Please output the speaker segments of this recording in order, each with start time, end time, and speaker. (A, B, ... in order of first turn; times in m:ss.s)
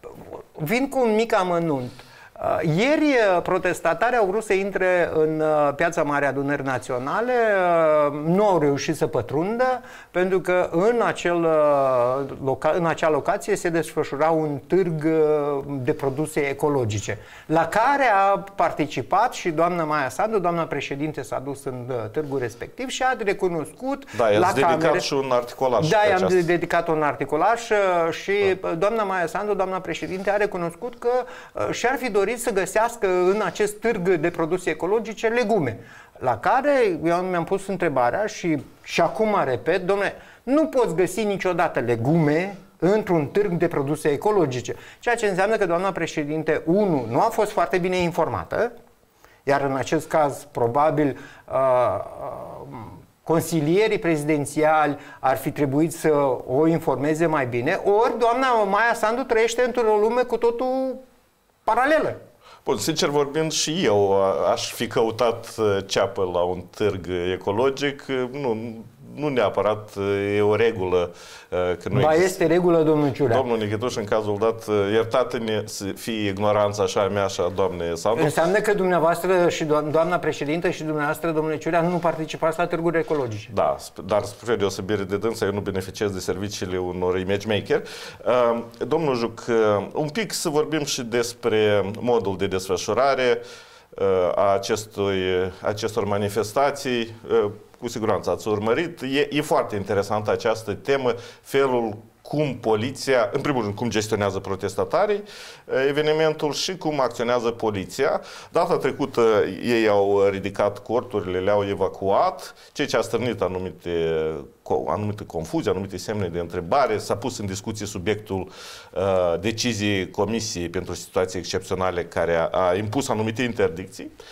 0:00.6-0:25.1 A
0:24.1-0:26.5 B
0:25.8-0:48.7 A
0:49.5-1:01.0 A
1:01.7-1:02.2 A
1:02.6-1:12.4 B
1:11.9-1:13.4 A
1:13.3-1:18.4 B
1:18.2-1:23.5 A
1:23.5-2:04.1 B